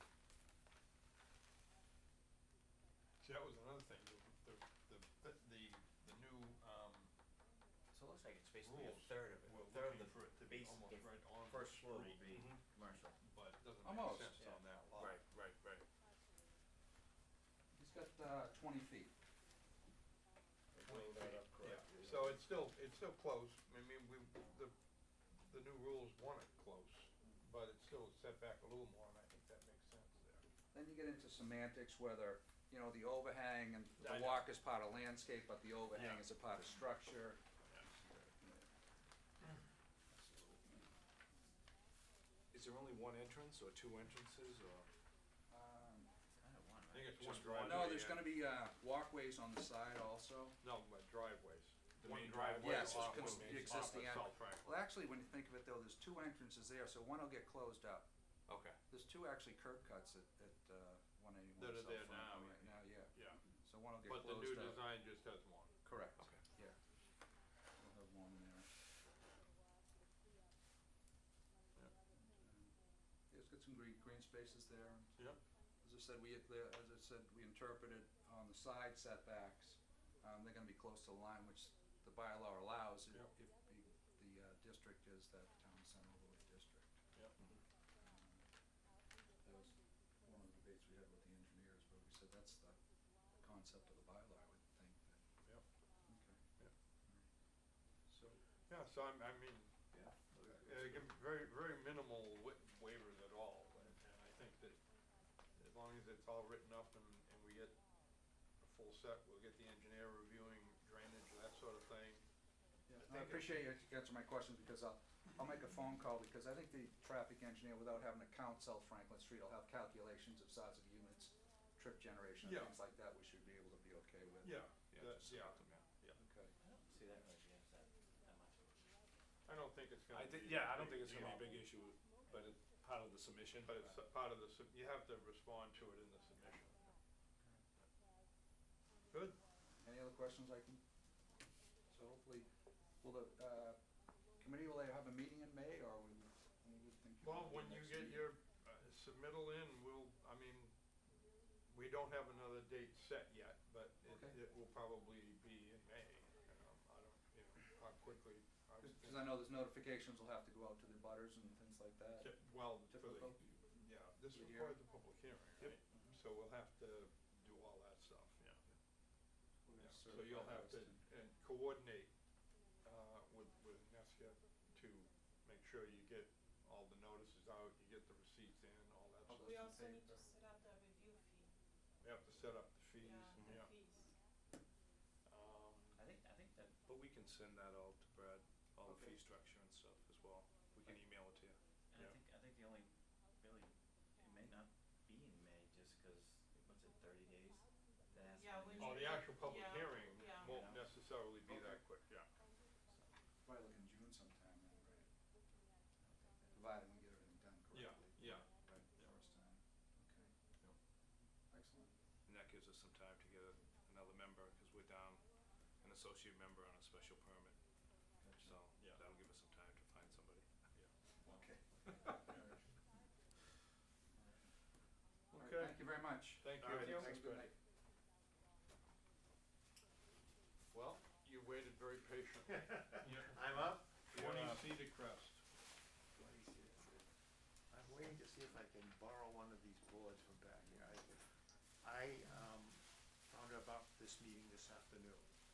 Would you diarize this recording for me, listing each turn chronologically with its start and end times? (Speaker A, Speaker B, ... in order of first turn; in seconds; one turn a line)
Speaker A: 3.2-7.1
Speaker B: 7.9-13.2
Speaker A: 8.6-12.3
Speaker C: 12.2-12.7
Speaker A: 13.2-15.2
Speaker D: 13.8-14.4
Speaker C: 15.0-15.9
Speaker D: 17.7-19.1
Speaker B: 20.7-22.4
Speaker A: 20.8-24.7
Speaker A: 25.3-30.5
Speaker D: 30.7-38.7
Speaker A: 34.0-34.4
Speaker A: 36.0-36.2
Speaker D: 40.1-40.9
Speaker C: 42.5-44.9
Speaker D: 45.5-46.1
Speaker B: 46.4-47.4
Speaker A: 46.9-48.3
Speaker C: 47.2-48.0
Speaker D: 47.6-50.6
Speaker A: 50.6-54.7
Speaker C: 52.0-54.1
Speaker D: 52.6-58.1
Speaker C: 58.5-58.8
Speaker D: 58.9-64.9
Speaker A: 61.6-63.4
Speaker A: 64.0-65.8
Speaker D: 65.8-66.8
Speaker C: 66.2-66.4
Speaker D: 67.8-68.7
Speaker D: 72.1-87.0
Speaker D: 88.0-88.5
Speaker D: 89.4-95.2
Speaker D: 96.1-96.5
Speaker D: 97.9-98.4
Speaker A: 98.7-104.8
Speaker C: 99.9-101.1
Speaker A: 105.5-107.8
Speaker A: 108.6-112.3
Speaker A: 112.9-113.6
Speaker D: 112.9-124.6
Speaker A: 122.4-122.7
Speaker A: 124.4-126.2
Speaker C: 124.9-125.9
Speaker D: 126.2-126.5
Speaker B: 126.6-129.0
Speaker A: 129.4-131.6
Speaker C: 130.1-133.8
Speaker A: 133.6-136.9
Speaker A: 139.1-139.4
Speaker D: 139.8-140.8
Speaker D: 141.9-143.8
Speaker D: 144.4-148.3
Speaker A: 147.2-150.8
Speaker A: 151.7-159.4
Speaker D: 154.1-154.4
Speaker D: 158.8-164.8
Speaker A: 162.2-168.7
Speaker D: 165.6-166.2
Speaker D: 169.6-171.1
Speaker A: 169.8-179.5
Speaker D: 179.3-180.3
Speaker E: 179.3-181.5
Speaker A: 182.0-183.7
Speaker E: 183.0-184.1
Speaker C: 183.3-183.7
Speaker A: 185.3-186.0
Speaker B: 185.9-186.8
Speaker C: 186.8-192.0
Speaker D: 188.8-189.2
Speaker B: 191.9-199.4
Speaker E: 198.3-200.7
Speaker A: 198.8-202.3
Speaker B: 200.2-201.0
Speaker D: 201.5-201.8
Speaker D: 203.4-205.1
Speaker B: 206.0-206.6
Speaker D: 206.5-210.3
Speaker A: 207.7-209.1
Speaker D: 211.5-211.9
Speaker C: 212.3-217.8
Speaker D: 218.2-218.6
Speaker C: 218.4-220.7
Speaker A: 218.8-219.0
Speaker D: 221.2-222.7
Speaker C: 221.8-222.2
Speaker A: 225.3-227.5
Speaker D: 225.3-227.5
Speaker A: 230.7-235.5
Speaker F: 232.5-234.7
Speaker F: 236.1-237.1
Speaker F: 237.7-245.3